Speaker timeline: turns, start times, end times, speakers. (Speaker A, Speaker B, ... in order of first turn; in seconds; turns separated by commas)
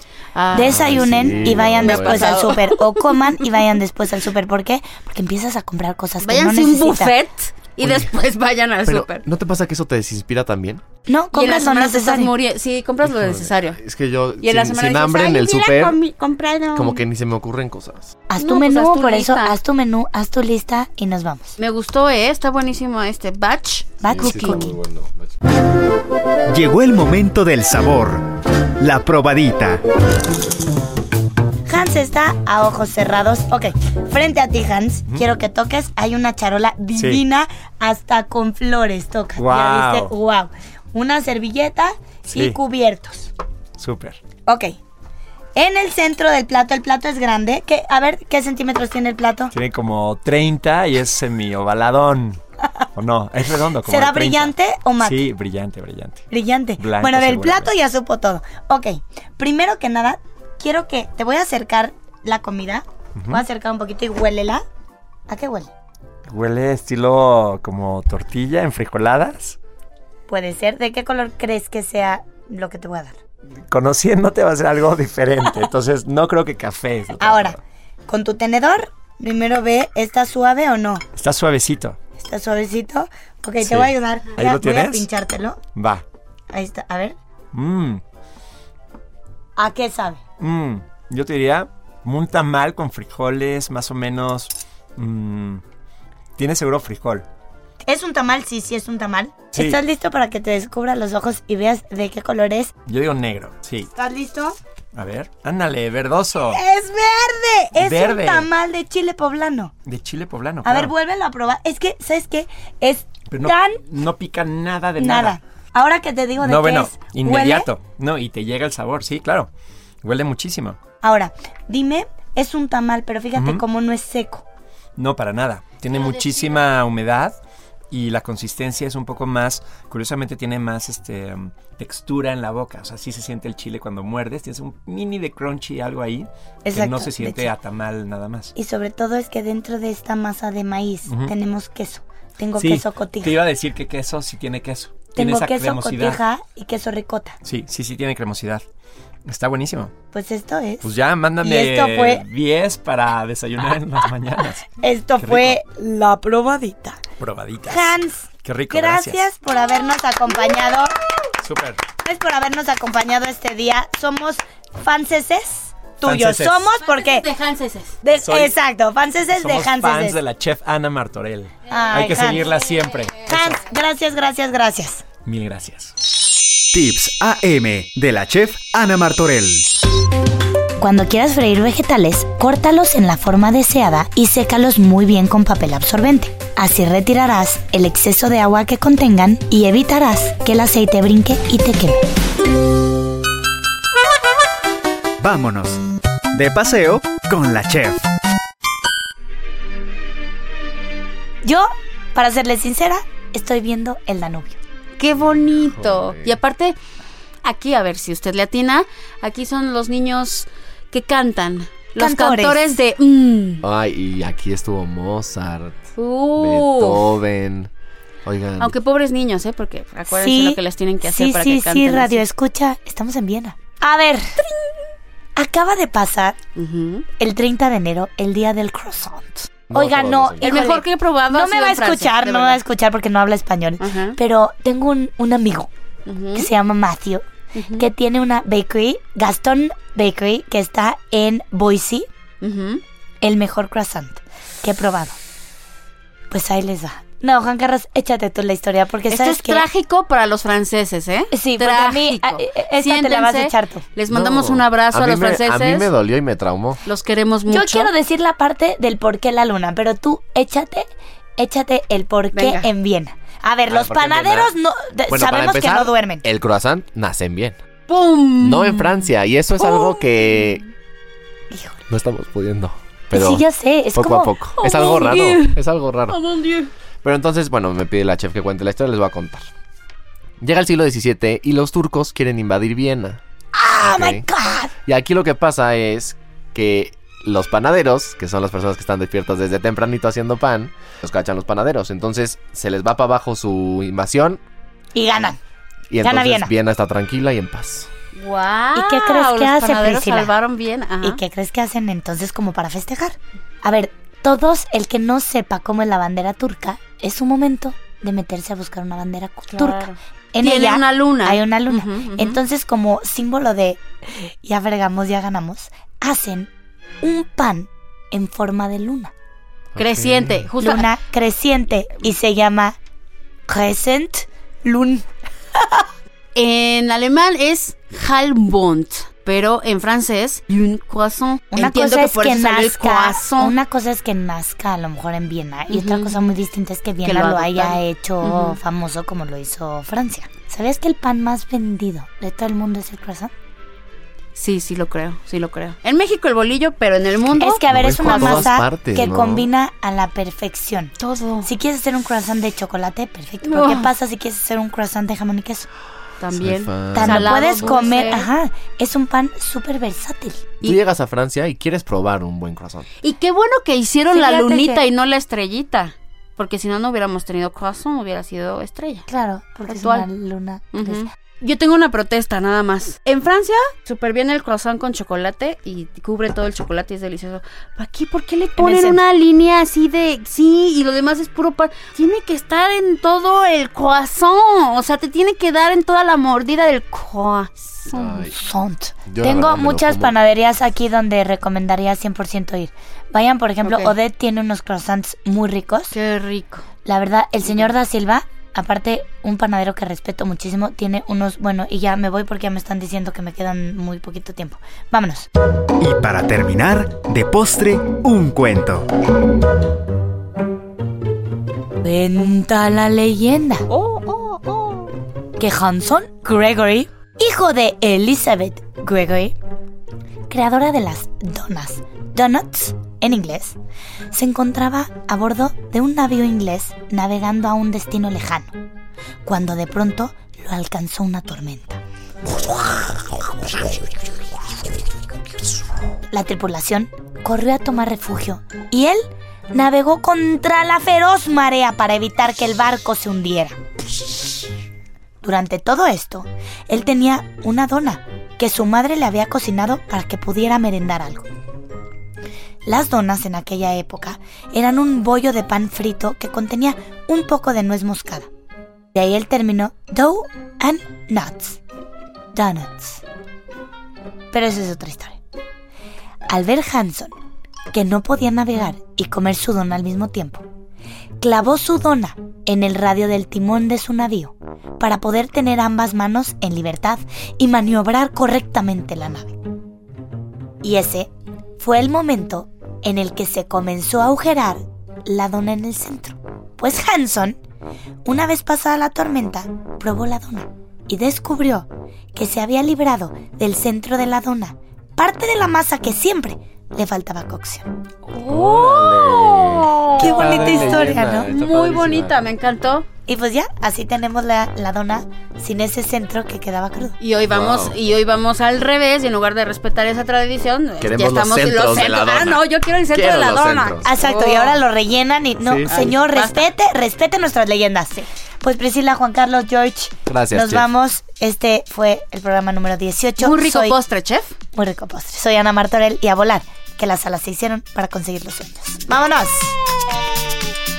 Speaker A: 0.3-3.1, Speaker B: 0.5-7.1, Speaker C: 0.5-2.5, Speaker A: 6.2-9.2, Speaker C: 7.8-8.1, Speaker C: 8.8-10.8, Speaker B: 11.1-12.3, Speaker A: 11.3-13.8, Speaker C: 13.0-16.0, Speaker A: 14.4-17.0, Speaker C: 16.7-18.1, Speaker B: 18.3-21.5, Speaker A: 18.4-19.5, Speaker A: 21.6-24.6, Speaker B: 24.0-24.7, Speaker C: 24.1-25.3, Speaker D: 26.5-28.3, Speaker D: 28.8-29.8, Speaker B: 31.7-43.3, Speaker E: 37.0-37.2, Speaker E: 39.4-40.1, Speaker E: 42.3-42.6, Speaker E: 43.8-44.2, Speaker B: 44.5-44.7, Speaker B: 45.5-49.5, Speaker E: 49.5-52.4, Speaker E: 53.0-56.2, Speaker B: 53.9-55.2, Speaker B: 56.3-64.6, Speaker E: 56.8-57.7, Speaker E: 63.1-63.4, Speaker B: 65.3-65.7, Speaker E: 66.3-69.6, Speaker B: 70.3-73.2, Speaker E: 73.7-77.6, Speaker B: 77.2-81.0, Speaker E: 81.2-82.0, Speaker B: 82.2-85.6, Speaker E: 83.6-85.1, Speaker E: 85.8-86.0, Speaker B: 86.5-87.2, Speaker E: 87.5-88.0, Speaker B: 89.6-90.2, Speaker E: 90.4-95.6, Speaker E: 96.4-97.2, Speaker B: 97.8-102.7, Speaker E: 102.9-103.9, Speaker B: 103.9-104.6, Speaker E: 104.9-106.6, Speaker B: 106.5-109.7, Speaker E: 107.8-108.5, Speaker E: 109.8-110.9, Speaker B: 110.6-113.8, Speaker E: 113.3-115.4, Speaker B: 115.0-117.7, Speaker E: 116.4-119.5, Speaker E: 120.0-120.8, Speaker B: 121.0-124.4, Speaker E: 123.3-123.6, Speaker E: 125.0-127.4, Speaker E: 127.9-138.5, Speaker B: 136.6-137.5, Speaker B: 138.6-143.4, Speaker E: 141.1-141.3, Speaker E: 142.6-146.2, Speaker B: 145.1-147.4, Speaker E: 147.4-148.6, Speaker E: 149.2-149.9, Speaker B: 150.1-150.9, Speaker E: 150.8-154.7, Speaker B: 151.4-152.2, Speaker B: 154.8-157.0, Speaker E: 155.2-155.6, Speaker E: 157.2-159.2, Speaker B: 157.7-160.9, Speaker E: 161.4-161.8, Speaker B: 162.0-167.2, Speaker E: 166.0-166.7, Speaker A: 166.8-167.9, Speaker B: 168.0-170.2, Speaker E: 168.2-168.5, Speaker E: 169.3-173.7, Speaker B: 171.7-172.4, Speaker B: 173.3-175.0, Speaker E: 175.2-175.9, Speaker D: 176.7-179.7, Speaker B: 180.8-192.0, Speaker D: 195.2-195.8, Speaker D: 196.3-198.0, Speaker B: 201.4-204.6, Speaker A: 205.0-206.8, Speaker C: 205.6-206.3, Speaker A: 207.4-213.6, Speaker B: 212.0-212.6, Speaker C: 213.6-215.7, Speaker A: 216.0-217.1, Speaker C: 216.3-217.7, Speaker C: 218.2-218.7, Speaker A: 218.6-222.2, Speaker B: 220.1-224.4, Speaker B: 225.3-226.4, Speaker A: 226.6-227.0, Speaker B: 227.2-235.7, Speaker C: 229.7-230.7, Speaker A: 230.4-232.6, Speaker A: 233.8-234.2, Speaker A: 236.1-236.5, Speaker B: 236.3-237.2, Speaker A: 237.5-237.8, Speaker B: 237.8-242.1, Speaker A: 242.4-242.8, Speaker B: 243.2-245.2, Speaker B: 246.3-249.6, Speaker A: 249.1-255.9, Speaker B: 251.3-253.8, Speaker C: 254.1-256.8, Speaker A: 256.8-257.9, Speaker B: 257.5-260.9, Speaker B: 261.4-266.2, Speaker A: 262.3-262.6, Speaker C: 263.7-264.5, Speaker C: 265.1-267.6, Speaker A: 267.9-270.4, Speaker C: 268.4-270.6, Speaker B: 271.5-271.8, Speaker C: 271.9-276.2, Speaker B: 273.1-274.3, Speaker A: 274.6-276.7, Speaker C: 277.0-279.5, Speaker C: 280.4-283.2, Speaker B: 283.6-284.7, Speaker C: 283.8-284.2, Speaker C: 284.9-294.4, Speaker B: 294.9-295.4, Speaker C: 295.9-297.9, Speaker B: 296.0-296.5, Speaker A: 298.1-301.2, Speaker B: 298.7-300.3, Speaker B: 301.0-316.5, Speaker A: 309.5-312.4, Speaker B: 317.0-319.1, Speaker C: 319.7-320.5, Speaker A: 319.8-320.9, Speaker B: 320.6-322.8, Speaker B: 323.5-325.0, Speaker A: 326.3-333.5, Speaker B: 331.5-343.3, Speaker A: 335.7-336.2, Speaker A: 337.0-338.6, Speaker A: 344.3-348.5, Speaker B: 347.4-355.7, Speaker C: 347.7-349.5, Speaker A: 351.0-351.5, Speaker A: 353.4-353.9, Speaker A: 356.2-358.3, Speaker C: 356.3-357.8, Speaker B: 356.9-360.5, Speaker C: 360.6-362.9, Speaker A: 363.0-369.0, Speaker B: 364.1-364.8, Speaker B: 369.1-371.1, Speaker A: 369.7-370.1, Speaker A: 370.7-388.3, Speaker B: 378.6-379.0, Speaker C: 387.9-388.4, Speaker B: 388.4-395.9, Speaker C: 389.1-390.1, Speaker A: 393.6-393.9, Speaker A: 395.9-396.6, Speaker B: 396.8-405.3, Speaker D: 405.8-408.9, Speaker B: 411.8-413.6, Speaker A: 413.7-414.9, Speaker B: 415.4-419.3, Speaker B: 420.3-423.6, Speaker B: 424.1-428.5, Speaker B: 429.2-433.8, Speaker B: 436.1-443.6, Speaker B: 445.2-451.2, Speaker B: 452.6-458.3, Speaker B: 458.9-461.6, Speaker B: 462.3-463.0, Speaker B: 464.3-465.2, Speaker B: 466.3-467.1, Speaker B: 467.7-470.4, Speaker B: 471.2-479.4, Speaker B: 480.6-487.4, Speaker B: 488.0-497.7, Speaker A: 498.1-502.9, Speaker C: 498.2-502.1, Speaker B: 500.0-501.3, Speaker B: 503.1-507.0, Speaker A: 507.0-514.5, Speaker C: 507.3-507.8, Speaker C: 510.8-513.9, Speaker B: 513.8-523.8, Speaker C: 515.4-515.9, Speaker A: 515.7-516.4, Speaker C: 520.1-520.7, Speaker A: 523.2-524.3, Speaker B: 524.5-529.5